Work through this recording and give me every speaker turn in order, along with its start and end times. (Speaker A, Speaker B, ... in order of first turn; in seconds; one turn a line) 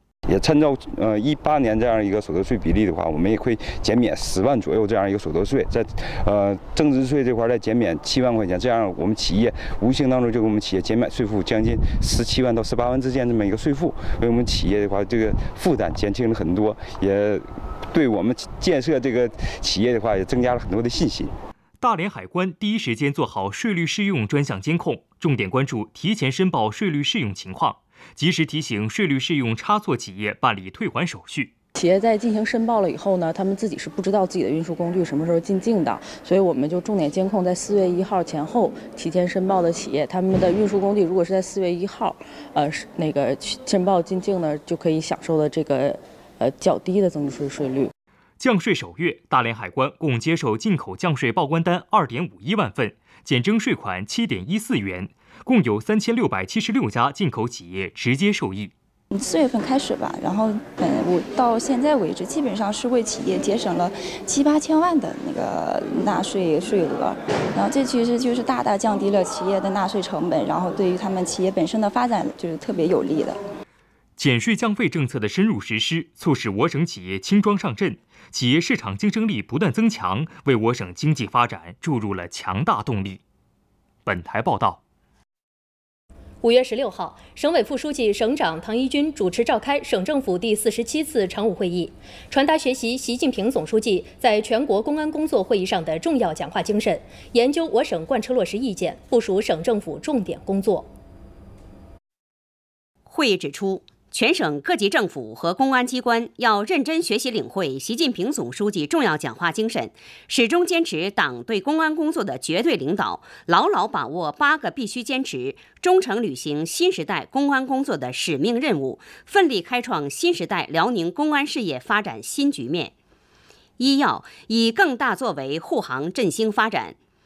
Speaker A: 0.3-21.3
Speaker B: 21.8-31.5
Speaker C: 31.7-47.9
Speaker B: 48.4-58.7
Speaker D: 59.1-73.4
Speaker B: 74.2-83.2
Speaker B: 84.1-84.8
Speaker E: 86.4-100.9
Speaker F: 103.1-122.9
Speaker F: 123.8-127.0